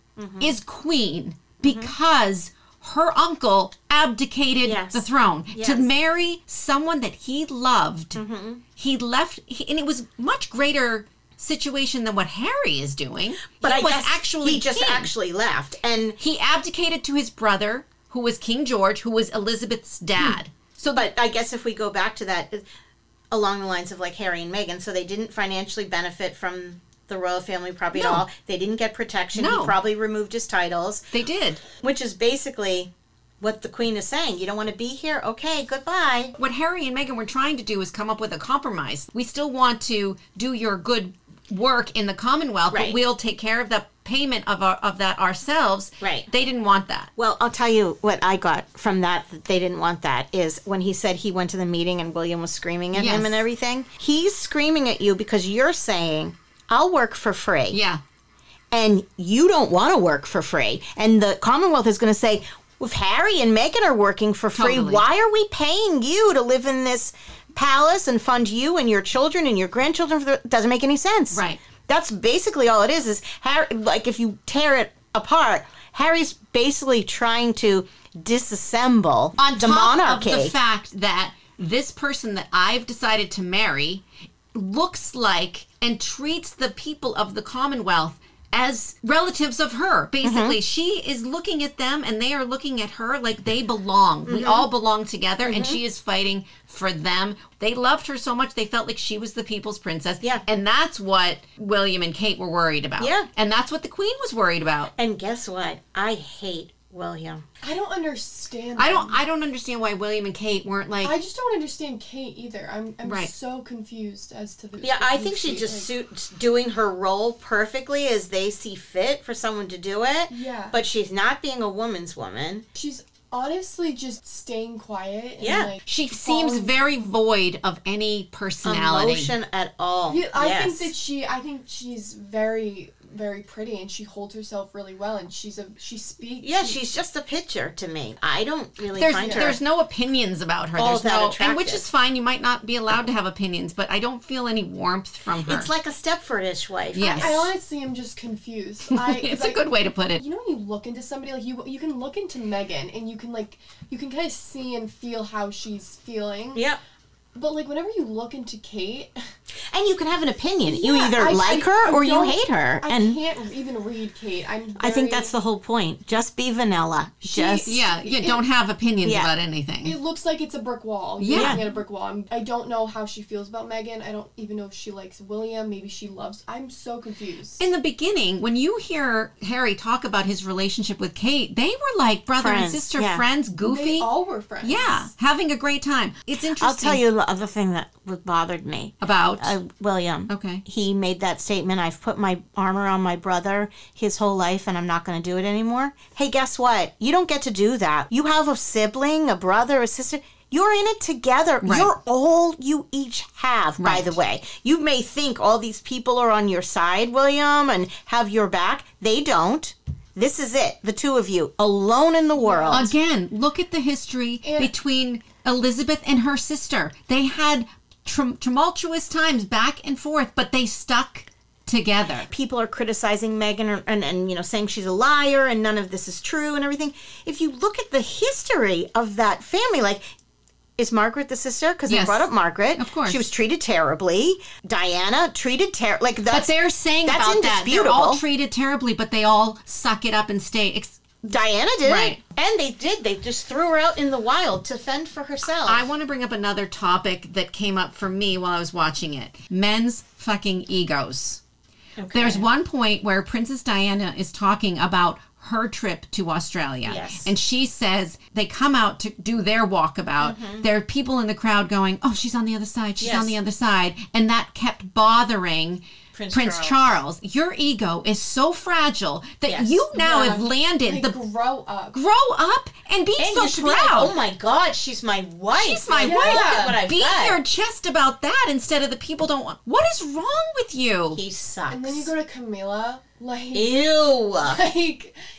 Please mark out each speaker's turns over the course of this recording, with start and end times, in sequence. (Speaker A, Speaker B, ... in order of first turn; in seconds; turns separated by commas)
Speaker A: 0.2-0.5, Speaker B: 0.4-8.2, Speaker A: 1.6-1.9, Speaker A: 4.6-5.9, Speaker A: 8.1-8.6, Speaker B: 8.8-15.1, Speaker A: 13.6-16.2, Speaker B: 16.2-21.1, Speaker A: 20.9-22.6, Speaker A: 23.3-31.0, Speaker B: 27.9-28.2, Speaker B: 29.3-29.7, Speaker B: 31.1-31.6, Speaker A: 31.8-32.9, Speaker A: 33.4-36.3, Speaker B: 36.4-47.1, Speaker A: 42.7-43.0, Speaker A: 46.0-46.3, Speaker A: 47.2-57.8, Speaker B: 52.9-53.4, Speaker B: 57.7-58.0, Speaker A: 58.7-80.5, Speaker B: 64.5-65.0, Speaker B: 71.3-71.6, Speaker B: 79.4-104.9, Speaker A: 90.2-90.6, Speaker A: 94.2-94.7, Speaker A: 95.4-95.8, Speaker A: 103.0-103.3, Speaker A: 105.0-107.4, Speaker C: 107.6-109.2, Speaker B: 108.8-111.2, Speaker C: 111.0-115.9, Speaker B: 113.0-113.3, Speaker A: 114.8-122.6, Speaker C: 120.3-120.8, Speaker C: 122.7-126.7, Speaker A: 125.4-125.7, Speaker B: 125.8-129.3, Speaker A: 128.6-130.9, Speaker C: 130.1-136.8, Speaker A: 136.4-139.6, Speaker B: 138.9-145.7, Speaker C: 139.1-139.5, Speaker A: 140.8-141.8, Speaker A: 145.4-147.5, Speaker B: 146.9-147.5, Speaker C: 147.1-156.6, Speaker B: 148.9-150.2, Speaker A: 156.5-156.8, Speaker C: 157.3-159.2, Speaker A: 159.7-163.2, Speaker C: 160.7-165.3, Speaker A: 164.8-167.7, Speaker C: 167.2-168.4, Speaker B: 167.7-170.0, Speaker A: 169.0-169.3, Speaker C: 169.8-177.6, Speaker B: 171.2-171.6, Speaker A: 171.3-171.6, Speaker B: 177.6-184.1, Speaker A: 182.4-183.2, Speaker C: 183.6-185.1, Speaker B: 184.6-187.0, Speaker A: 186.6-212.9, Speaker B: 189.0-189.6, Speaker B: 190.3-190.6, Speaker B: 201.6-201.9, Speaker B: 203.8-204.2, Speaker C: 212.3-212.9, Speaker B: 212.7-222.3, Speaker C: 214.4-214.7, Speaker A: 222.3-230.0, Speaker A: 230.8-236.5, Speaker B: 231.9-233.2, Speaker B: 236.3-241.2, Speaker A: 237.0-238.2, Speaker A: 241.3-245.8, Speaker B: 241.8-242.2, Speaker B: 245.7-251.4, Speaker A: 252.0-252.5, Speaker B: 252.1-271.2, Speaker A: 256.8-257.3, Speaker A: 260.2-260.7, Speaker A: 263.0-263.4, Speaker A: 266.1-266.9, Speaker A: 269.4-269.8, Speaker C: 269.9-272.0, Speaker B: 271.9-274.1, Speaker A: 273.2-277.4, Speaker B: 275.5-281.2, Speaker C: 276.0-276.8, Speaker A: 281.1-282.1, Speaker C: 281.7-283.8, Speaker A: 283.5-284.6, Speaker C: 284.4-285.2